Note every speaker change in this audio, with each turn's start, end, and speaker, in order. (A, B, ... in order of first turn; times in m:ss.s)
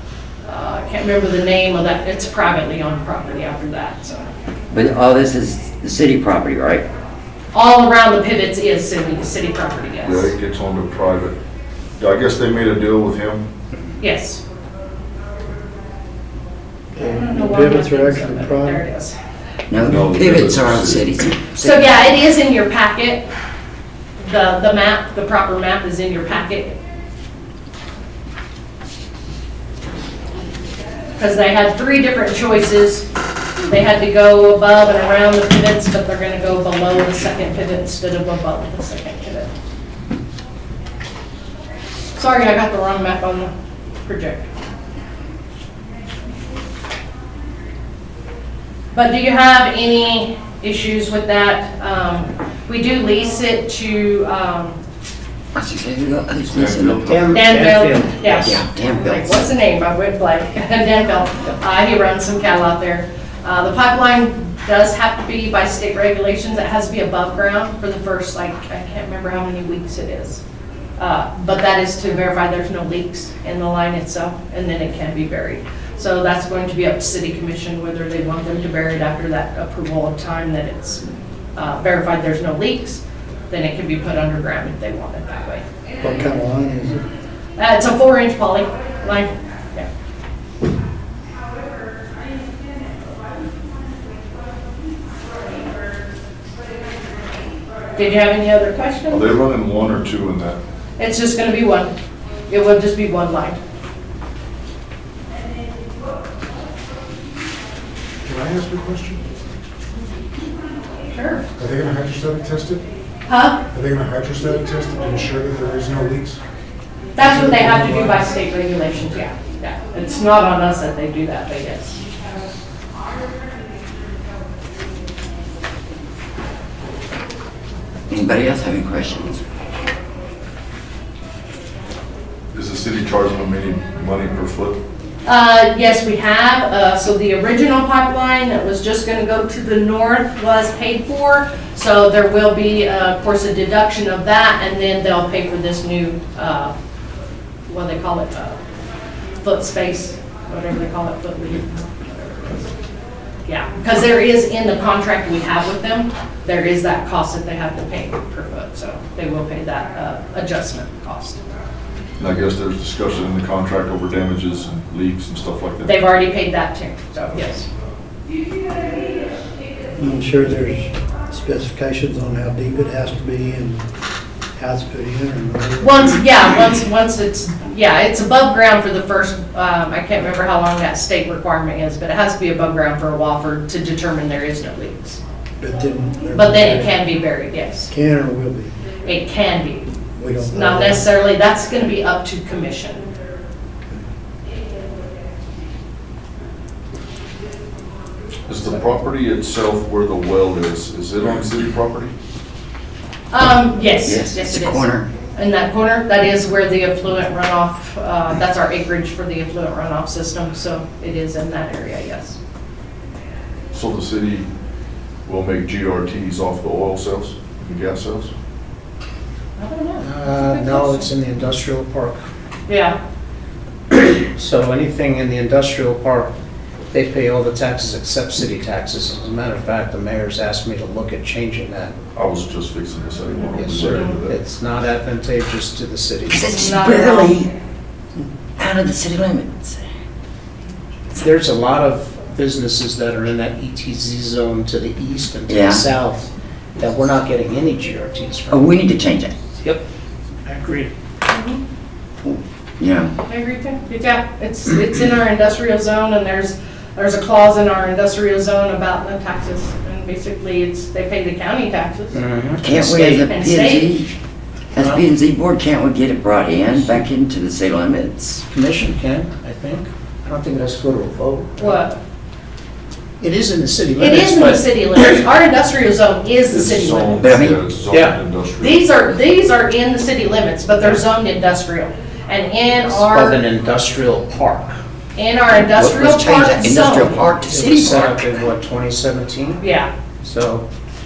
0:00.4-0:04.3 A
0:04.7-0:06.8 B
0:07.5-0:10.3 A
0:10.0-0:11.3 C
0:12.0-0:13.4 C
0:14.0-0:14.4 A
0:17.0-0:18.8 D
0:17.1-0:19.2 A
0:19.7-0:22.1 B
0:19.8-0:21.0 C
0:21.6-0:23.3 A
0:24.2-0:26.8 A
0:31.2-0:33.1 A
0:33.6-0:39.5 A
0:42.2-0:43.5 A
0:44.0-0:44.5 A
0:48.9-0:54.8 A
0:55.6-0:57.3 B
0:56.5-0:57.0 C
0:57.0-0:58.5 E
0:57.3-1:10.4 A
0:58.3-0:59.4 B
1:11.0-1:21.0 A
1:21.6-1:25.6 A
1:26.0-1:27.0 D
1:27.6-1:29.9 A
1:38.0-1:39.4 A
1:39.1-1:40.6 C
1:41.0-1:41.9 A
1:42.5-1:43.6 A
1:48.2-1:49.2 F
1:51.1-1:51.5 A
1:51.6-1:52.8 F
1:53.3-1:53.6 A
1:53.7-1:56.4 F
1:57.2-2:02.0 A
2:08.1-2:09.4 B
2:12.6-2:14.8 C
2:15.3-2:26.7 A
2:27.7-2:28.6 A
2:29.4-2:32.7 A
2:33.5-2:41.4 A
2:42.2-2:45.8 C
2:45.8-2:47.7 A
2:50.0-2:53.8 D
2:54.6-2:56.2 D
2:55.8-3:05.2 A
3:05.6-3:07.0 D
3:06.3-3:07.9 A
3:07.9-3:08.7 D
3:09.0-3:09.9 A
3:10.2-3:11.1 D
3:10.4-3:13.0 A
3:18.5-3:22.1 C
3:23.3-3:32.4 A
3:24.0-3:25.1 B
3:33.7-3:34.5 C
3:35.3-3:37.3 C
3:36.4-3:38.2 F
3:39.6-3:41.1 A
3:40.0-3:42.3 E
3:42.7-3:43.0 A
3:43.9-3:46.3 E
3:46.9-3:51.9 E
3:52.2-3:54.4 C
3:53.5-3:56.5 E
3:56.3-3:57.5 B
3:56.5-3:57.4 A
3:58.6-3:59.8 B
4:01.2-4:08.7 E
4:05.5-4:05.8 B
4:08.5-4:09.4 B
4:10.5-4:10.9 E
4:11.3-4:11.6 A
4:12.2-4:13.1 B
4:13.3-4:22.2 A
4:22.1-4:23.2 E
4:22.6-4:24.1 B
4:23.1-4:23.9 A
4:24.7-4:28.4 B
4:24.8-4:25.0 E
4:28.5-4:31.8 E
4:31.6-4:32.0 A
4:33.2-4:35.0 E
4:34.0-4:37.3 A
4:36.5-4:38.8 C
4:37.2-4:37.6 B
4:37.9-4:38.2 E
4:38.6-4:43.4 A
4:42.8-4:44.8 E
4:45.2-4:47.2 A
4:45.6-4:48.4 B
4:47.4-4:49.6 E
4:49.6-4:49.9 A
4:50.2-4:50.6 E